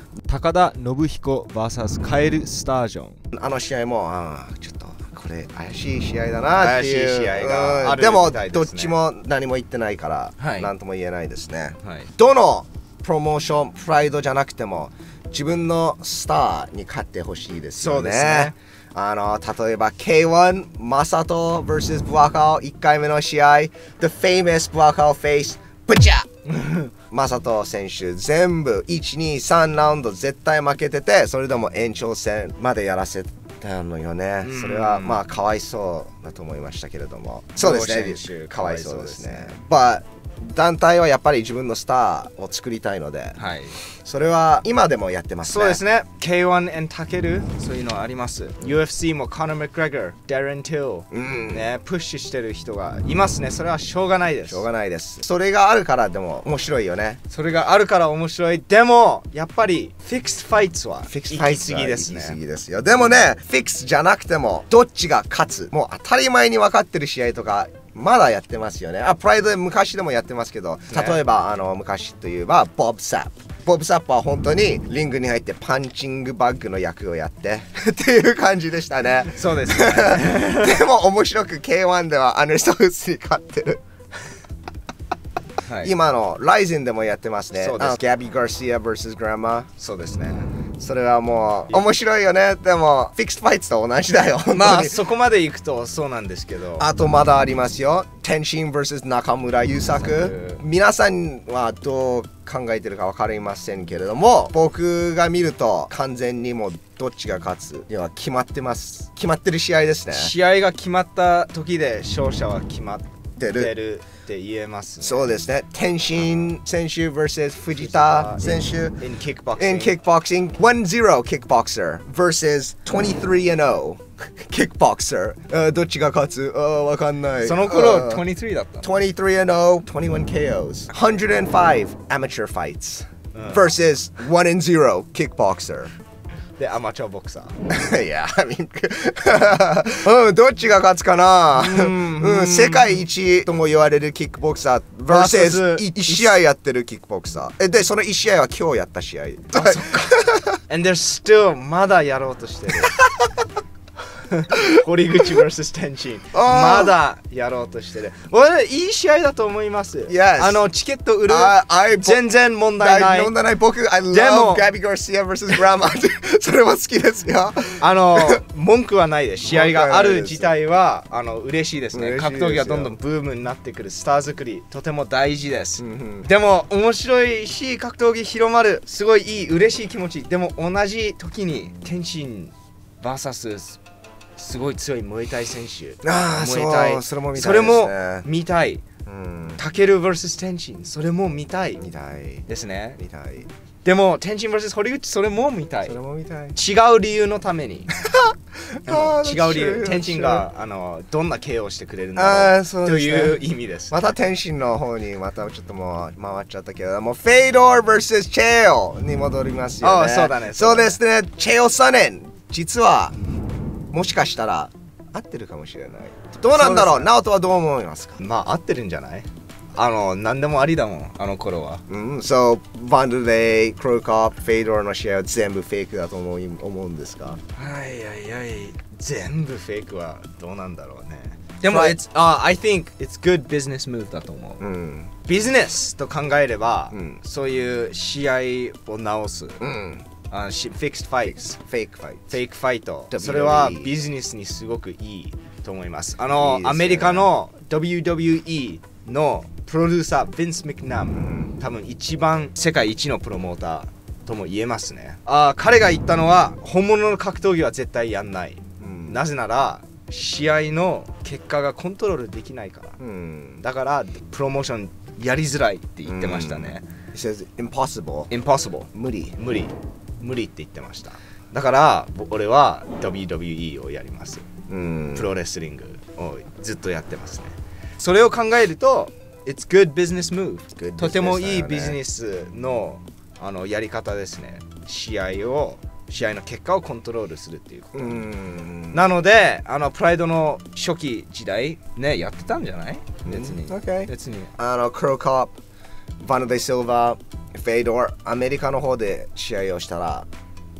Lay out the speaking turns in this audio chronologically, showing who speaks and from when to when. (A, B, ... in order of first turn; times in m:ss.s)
0:00.3-0:03.2 A
0:03.3-0:26.3 B
0:06.6-0:08.9 A
0:10.4-0:10.7 A
0:11.8-0:12.1 A
0:17.8-0:18.5 A
0:26.5-0:26.9 A
0:27.1-0:45.8 B
0:34.4-0:35.2 A
0:37.6-0:39.6 A
0:43.4-0:43.8 A
0:45.4-0:54.6 A
0:51.1-0:51.7 B
0:54.5-0:57.2 B
0:57.3-1:02.4 A
1:01.1-1:23.8 B
1:10.9-1:11.2 A
1:19.3-1:20.8 A
1:25.6-1:25.9 A
1:25.8-1:29.7 B
1:27.6-1:28.0 A
1:29.8-1:30.5 A
1:30.8-1:35.0 B
1:34.5-1:36.9 A
1:36.8-1:50.3 B
1:39.9-1:40.6 A
1:50.1-1:55.3 A
1:53.4-1:53.7 B
1:55.0-1:59.0 B
1:57.7-2:00.0 A
1:59.6-2:08.2 B
2:07.4-2:08.9 A
2:08.8-2:15.9 B
2:13.3-2:13.6 A
2:16.6-2:17.5 A
2:17.7-2:30.6 B
2:21.5-2:23.0 A
2:25.1-2:26.4 A
2:29.5-2:33.0 A
2:33.0-2:33.3 B
2:34.3-2:43.3 A
2:34.5-2:34.8 B
2:36.3-2:36.9 B
2:40.1-2:40.6 B
2:41.3-2:48.4 B
2:44.1-2:44.7 A
2:47.8-3:03.8 A
2:49.5-2:50.5 B
2:51.9-2:52.9 B
2:55.8-2:56.3 B
3:04.4-3:08.8 A
3:06.0-3:08.3 B
3:09.0-3:09.6 B
3:09.6-3:11.8 A
3:11.8-3:12.5 B
3:12.5-3:13.0 A
3:13.0-3:13.5 B
3:13.8-3:16.0 A
3:15.8-3:16.6 B
3:16.5-3:17.9 A
3:18.0-3:20.5 B
3:18.8-3:24.0 A
3:22.2-3:33.1 B
3:29.8-3:31.0 A
3:33.9-3:38.2 B
3:36.5-3:37.1 A
3:38.2-3:41.8 A
3:41.9-3:47.4 B
3:47.5-3:54.6 A
3:51.6-3:52.0 B
3:54.6-3:55.1 B
3:55.2-3:59.6 A
3:56.9-3:57.2 B
3:59.6-4:00.0 B
4:00.3-4:01.5 A
4:01.2-4:02.4 B
4:02.3-4:23.0 A
4:03.1-4:04.0 B
4:06.3-4:07.3 B
4:11.1-4:11.5 B
4:18.8-4:19.2 B
4:23.0-4:23.6 B
4:23.6-4:26.8 A
4:26.0-4:28.3 B
4:28.3-4:34.5 A
4:28.9-4:29.4 B
4:34.7-4:35.3 B
4:35.1-4:48.2 A
4:40.7-4:42.0 B
4:47.9-4:49.1 B
4:48.9-4:54.5 A
4:53.2-4:55.5 B
4:56.2-5:00.3 B